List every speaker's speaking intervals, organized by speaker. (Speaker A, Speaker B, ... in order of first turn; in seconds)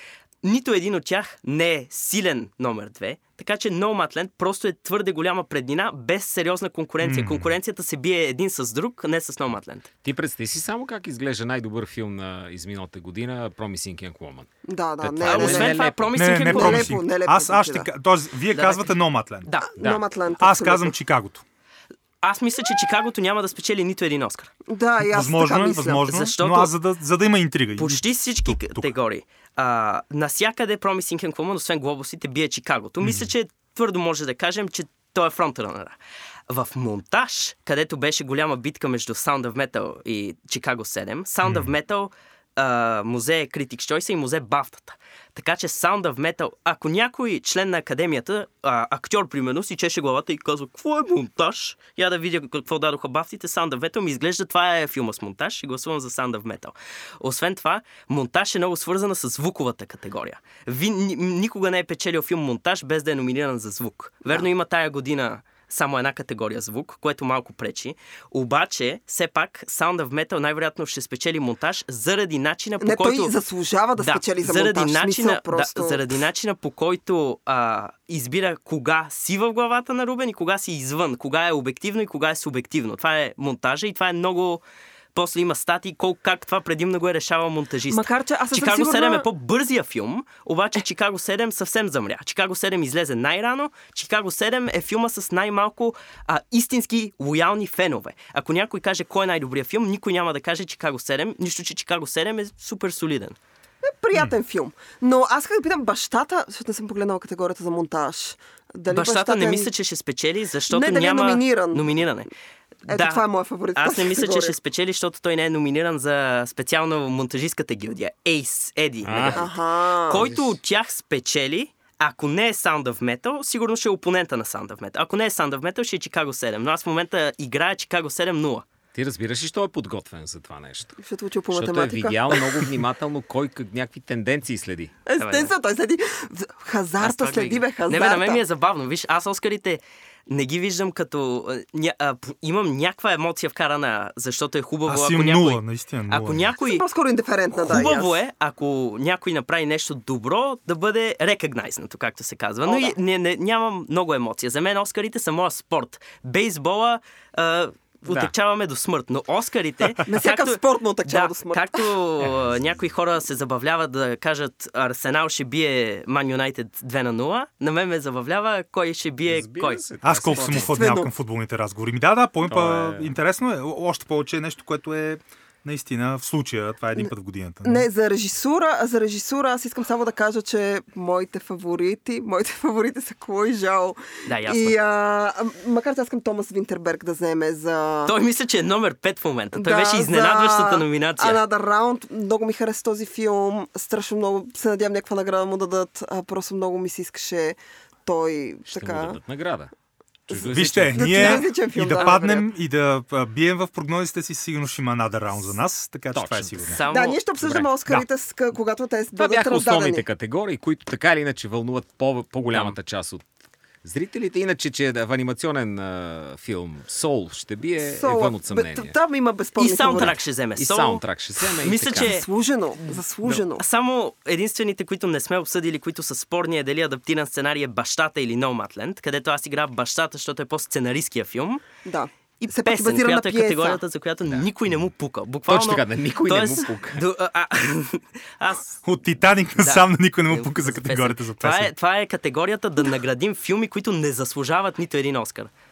Speaker A: 0.4-9.9, 15.2-16.9, 18.5-19.7, 22.2-24.5, 26.1-26.7, 27.8-36.0, 36.5-73.3, 74.0-84.6, 85.1-103.3, 108.9-112.3, 112.9-113.2, 113.8-119.5, 120.1-128.6, 135.2-135.5, 137.0-146.8, 147.5-169.8, 184.2-184.8, 188.1-191.4, 206.7-207.2, 219.6-231.6, 232.4-238.8, 239.6-245.5
Speaker B: 7.0-7.5, 16.1-19.5, 20.4-21.4, 25.0-28.9, 33.0-33.3, 41.4-41.7, 144.9-146.5, 170.0-177.8, 200.4-206.8, 238.8-241.7
Speaker C: 10.0-14.5, 15.0-16.2, 119.0-119.5, 120.1-120.5, 128.9-131.0, 131.5-134.9, 169.2-170.7, 172.4-173.2, 198.7-199.7, 200.3-201.4, 206.1-206.8, 207.4-208.0, 209.2-213.2, 213.8-218.9, 219.9-222.1, 235.5-237.0
Speaker D: 14.7-15.8, 16.4-17.9, 19.7-20.9, 24.7-26.0, 72.8-76.0, 87.9-89.2, 103.8-109.7, 110.7-111.9, 112.9-114.5, 119.3-120.2, 131.0-132.7, 135.1-138.4, 146.6-148.2, 152.6-152.9, 160.1-161.9, 170.5-171.1, 177.6-188.1, 189.5-199.2, 200.3-202.5, 206.9-210.1, 217.9-220.1, 221.9-223.6, 231.8-233.8